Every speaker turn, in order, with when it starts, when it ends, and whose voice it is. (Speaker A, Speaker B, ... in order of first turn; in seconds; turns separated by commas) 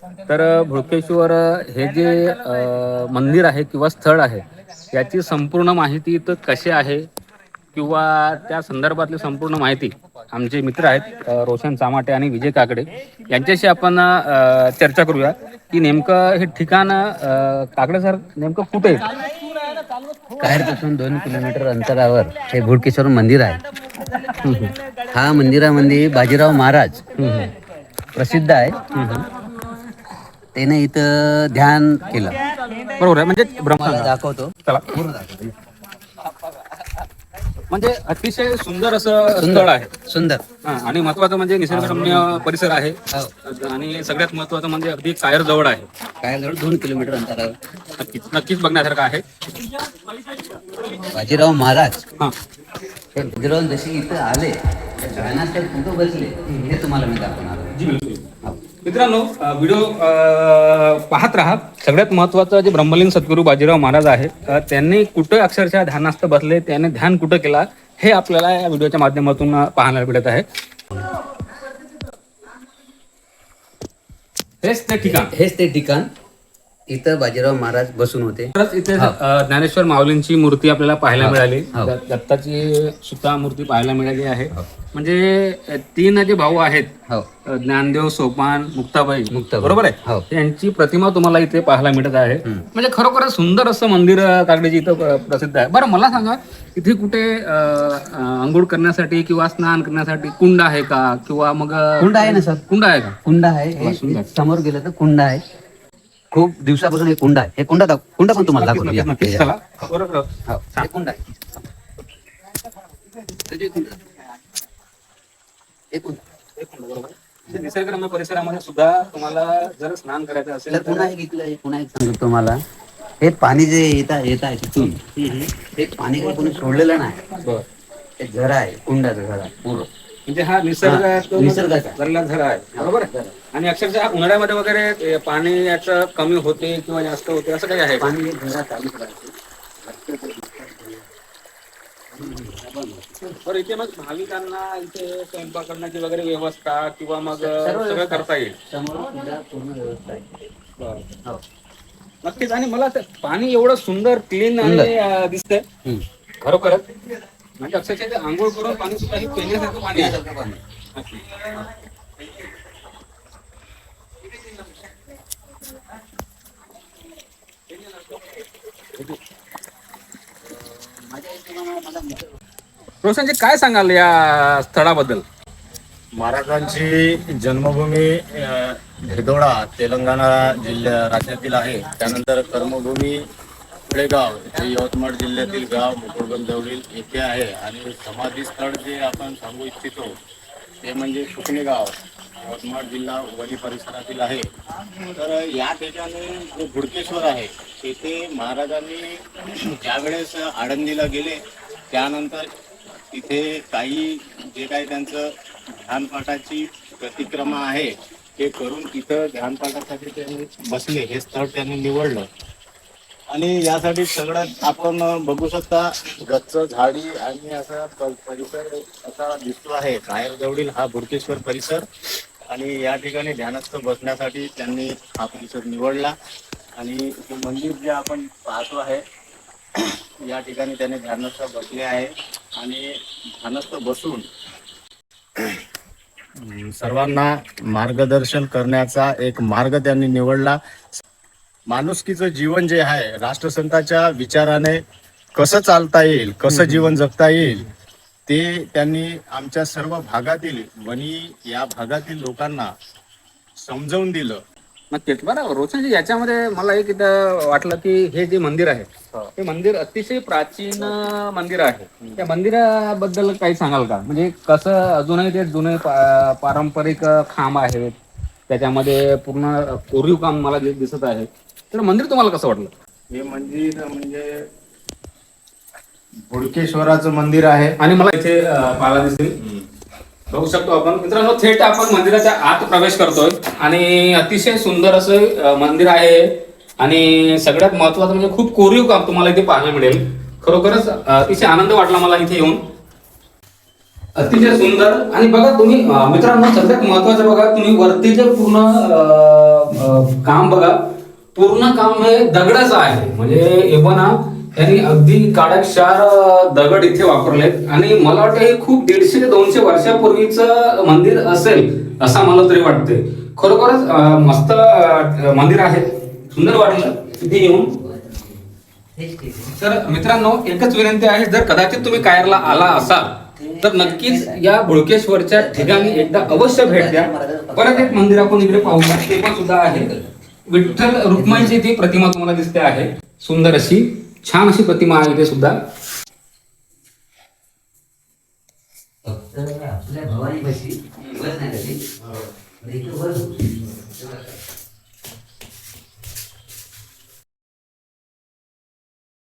Speaker A: 0.2-7.1, Speaker A: 7.7-19.3, Speaker B: 20.4-23.6, Speaker A: 24.3-24.8, Speaker B: 25.0-27.5, Speaker B: 28.1-29.3, Speaker B: 30.6-32.4, Speaker A: 33.0-34.1, Speaker B: 33.7-35.5, Speaker A: 34.6-35.0, Speaker A: 37.7-39.9, Speaker B: 39.4-40.5, Speaker A: 40.6-45.9, Speaker B: 41.7-42.5, Speaker B: 46.2-47.6, Speaker A: 47.9-49.4, Speaker A: 50.4-50.7, Speaker B: 50.9-52.0, Speaker B: 53.1-57.8, Speaker A: 55.1-55.4, Speaker A: 57.7-58.2, Speaker A: 58.8-70.5, Speaker A: 74.6-75.3, Speaker B: 75.0-76.1, Speaker B: 76.9-79.2, Speaker A: 78.5-86.9, Speaker B: 81.2-82.0, Speaker A: 87.5-103.2, Speaker B: 89.3-90.3, Speaker B: 102.0-102.6, Speaker B: 103.2-105.4, Speaker A: 103.8-104.3, Speaker B: 106.3-109.5, Speaker A: 108.3-110.9, Speaker B: 110.5-111.7, Speaker B: 113.2-114.2, Speaker B: 115.9-116.2, Speaker A: 116.6-121.1, Speaker B: 120.7-122.6, Speaker B: 123.2-127.3, Speaker A: 127.3-127.7, Speaker B: 128.2-129.9, Speaker A: 130.3-138.1, Speaker B: 130.8-132.0, Speaker B: 132.8-133.4, Speaker B: 138.0-141.1, Speaker B: 142.1-143.4, Speaker A: 143.4-148.6, Speaker B: 147.4-150.4, Speaker A: 150.8-151.1, Speaker A: 152.2-155.7, Speaker B: 154.6-154.9, Speaker A: 156.4-157.1, Speaker A: 157.6-160.2, Speaker B: 159.8-160.6, Speaker A: 160.9-161.4, Speaker B: 161.5-161.8, Speaker B: 171.0-172.3, Speaker A: 173.0-175.2, Speaker C: 176.2-183.2, Speaker C: 183.9-190.2, Speaker C: 190.8-194.5, Speaker C: 195.0-202.5, Speaker C: 203.1-212.3, Speaker C: 213.3-221.9, Speaker C: 222.5-226.1, Speaker C: 226.8-229.0, Speaker C: 229.8-232.9, Speaker C: 233.4-234.3, Speaker C: 236.4-241.0, Speaker C: 241.7-244.8, Speaker C: 245.3-247.7, Speaker C: 248.3-252.7, Speaker C: 253.6-254.4, Speaker A: 254.9-267.9, Speaker C: 262.0-262.3, Speaker A: 268.5-272.7, Speaker C: 273.1-274.4, Speaker C: 276.3-277.8, Speaker A: 277.8-279.4, Speaker A: 280.3-292.6, Speaker A: 294.2-317.8, Speaker B: 317.1-319.7, Speaker A: 319.6-329.9, Speaker B: 321.8-324.4, Speaker B: 325.4-329.0, Speaker B: 329.5-330.1, Speaker A: 330.5-335.6, Speaker B: 331.1-331.6, Speaker B: 339.1-344.4